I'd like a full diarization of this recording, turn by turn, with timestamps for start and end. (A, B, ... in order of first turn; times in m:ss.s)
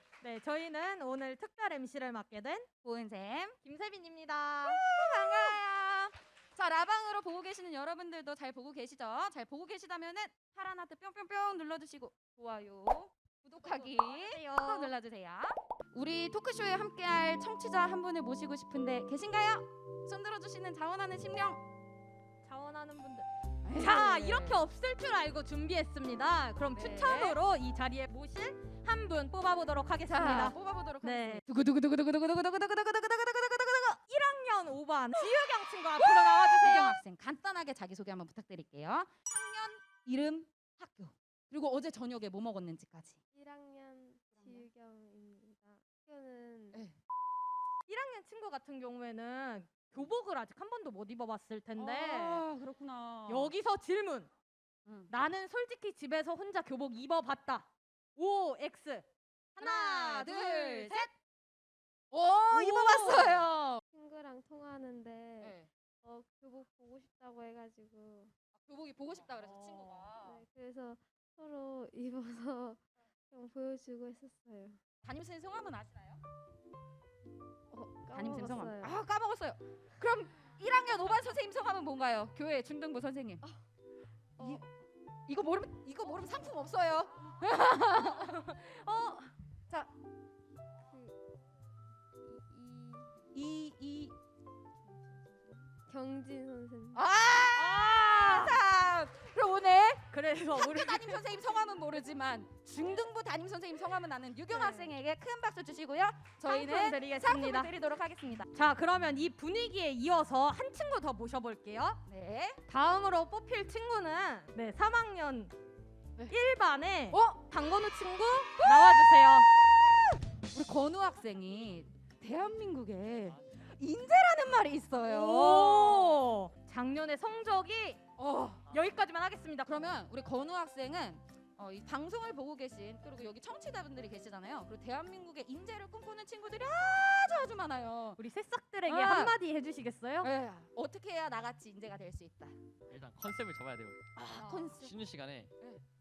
0:00.2-0:02.7 A
0:02.8-0:03.6 B
0:03.6-0:04.9 A
0:04.6-0:21.6 B
0:13.6-0:14.9 A
0:22.4-0:31.4 A
0:23.6-0:24.6 B
0:26.7-0:27.4 B
0:30.1-0:33.9 B
0:34.0-0:37.0 A
0:35.2-0:43.2 B
0:43.4-0:46.8 C
0:47.9-0:52.5 A
0:51.8-0:53.5 B
0:53.3-0:54.3 A
0:55.1-1:01.1 A
0:59.6-1:01.1 B
1:02.1-1:03.8 B
1:02.5-1:03.5 A
1:03.9-1:08.3 C
1:05.4-1:05.7 B
1:08.6-1:10.4 B
1:10.2-1:14.8 C
1:15.0-1:16.2 B
1:17.7-1:19.0 C
1:18.1-1:23.4 B
1:24.4-1:24.6 B
1:25.3-1:28.4 B
1:28.0-1:29.3 A
1:32.2-1:33.3 C
1:33.3-1:34.2 B
1:35.1-1:37.0 C
1:37.0-1:48.5 B
1:37.5-1:38.6 A
1:40.1-1:41.2 A
1:44.5-1:44.9 C
1:46.4-1:47.7 A
1:48.5-1:52.0 A
1:52.1-1:52.6 B
1:52.7-1:55.5 A
1:56.3-1:59.5 A
1:57.1-1:57.5 B
1:58.6-1:59.0 B
2:00.5-2:06.2 B
2:05.1-2:08.0 A
2:08.2-2:08.7 B
2:08.7-2:09.7 A
2:09.6-2:18.2 B
2:18.2-2:20.3 A
2:18.9-2:19.3 B
2:20.2-2:22.6 B
2:22.9-2:25.5 D
2:24.2-2:25.0 B